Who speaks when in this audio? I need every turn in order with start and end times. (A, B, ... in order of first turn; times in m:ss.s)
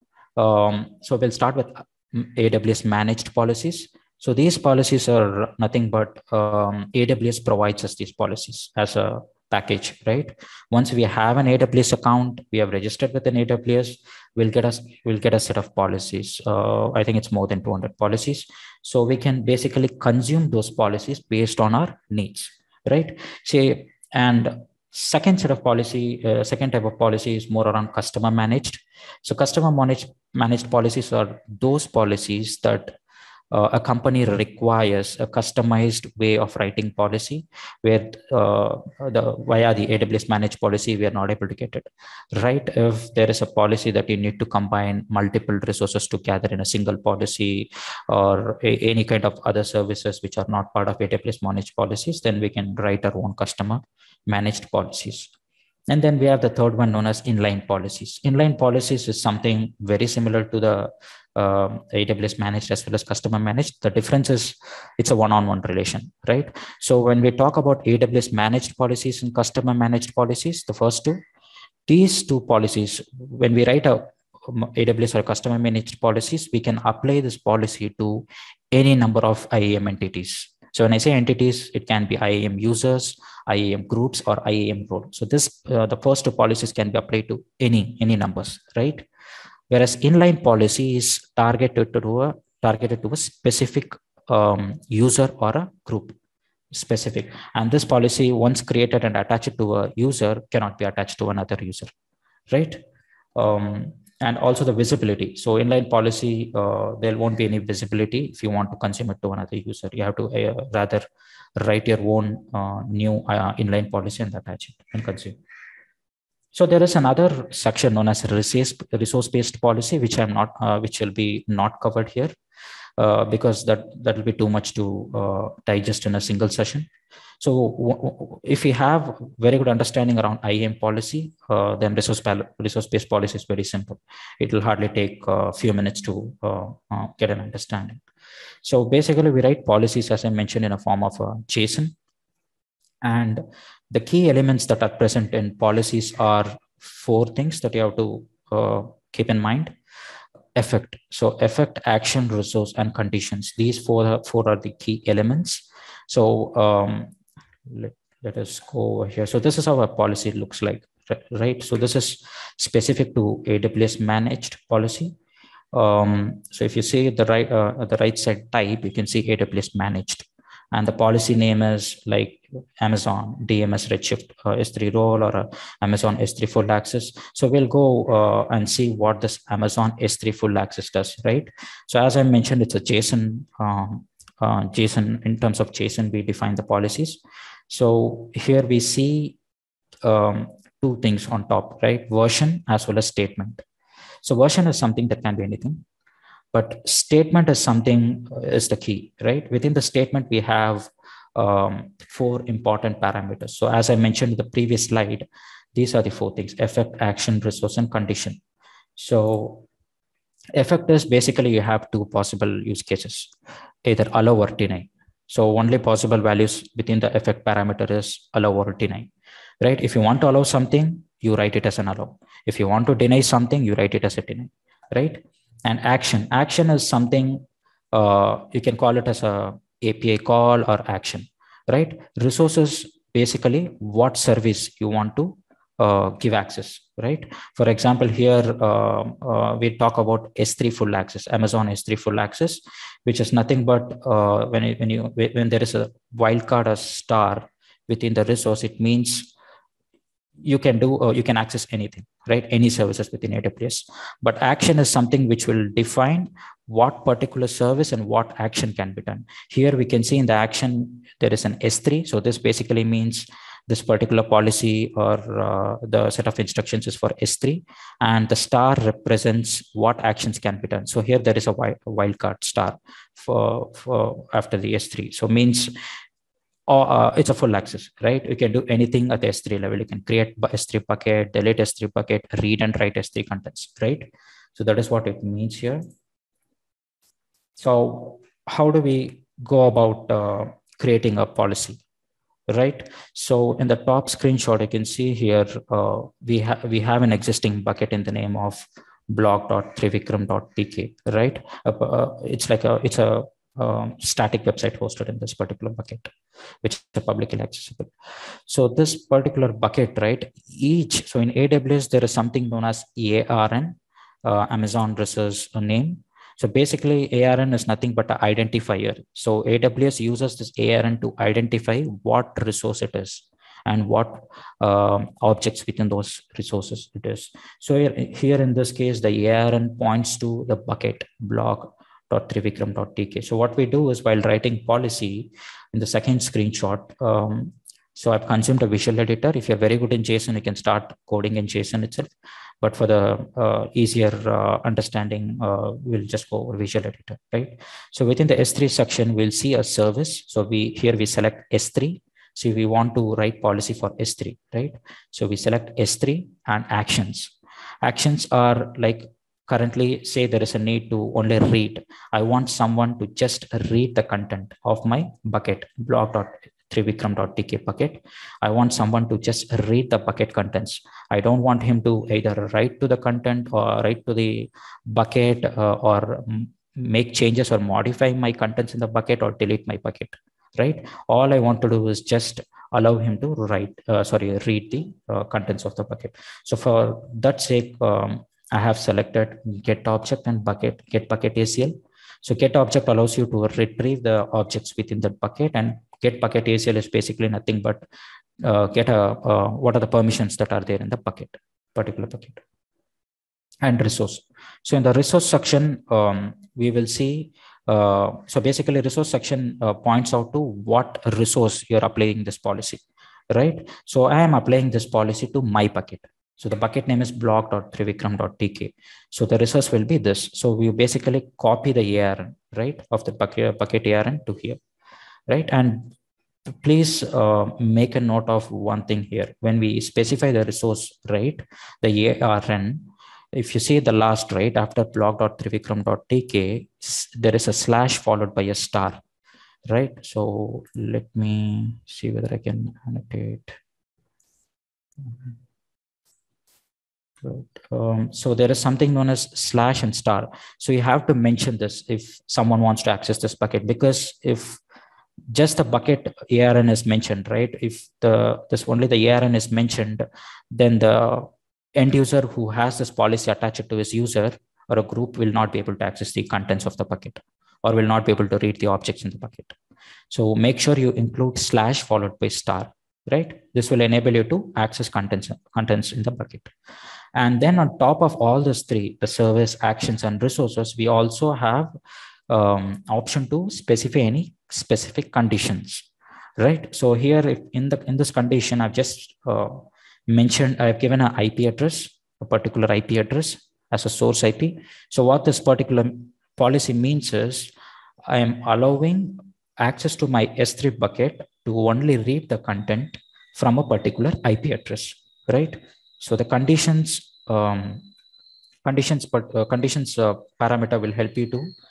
0:00.4-0:32.9 A
0:33.5-0:55.3 A
0:55.9-1:11.2 A
1:11.9-1:29.0 A
1:29.7-1:36.1 A
1:36.7-1:41.9 A
1:42.5-1:42.8 A
1:43.4-1:51.0 A
1:51.6-1:55.4 A
1:56.5-2:02.3 A
2:03.0-2:06.9 A
2:07.4-2:18.0 A
2:18.6-2:21.9 A
2:23.0-2:29.7 A
2:30.6-2:37.1 A
2:37.7-2:45.1 A
2:45.7-3:09.4 A
3:10.0-3:13.6 A
3:14.2-3:15.8 A
3:16.5-3:28.4 A
3:29.0-3:29.6 A
3:30.6-3:33.3 A
3:33.8-3:39.1 A
3:39.6-4:09.3 A
4:10.4-4:35.7 A
4:36.7-4:45.8 A
4:47.6-4:51.8 A
4:52.5-5:06.1 A
5:06.6-5:07.9 A
5:08.5-5:42.1 A
5:42.6-6:37.8 A
6:38.4-6:42.4 A
6:43.6-6:52.8 A
6:53.3-7:04.6 A
7:05.3-7:05.9 A
7:06.5-7:19.0 A
7:19.7-7:23.6 A
7:25.0-7:25.3 A
7:27.2-7:34.6 A
7:35.3-7:49.5 A
7:50.1-7:56.5 A
7:57.2-8:01.7 A
8:02.3-8:05.8 A
8:06.4-8:17.5 A
8:18.1-8:27.9 A
8:28.6-8:31.5 A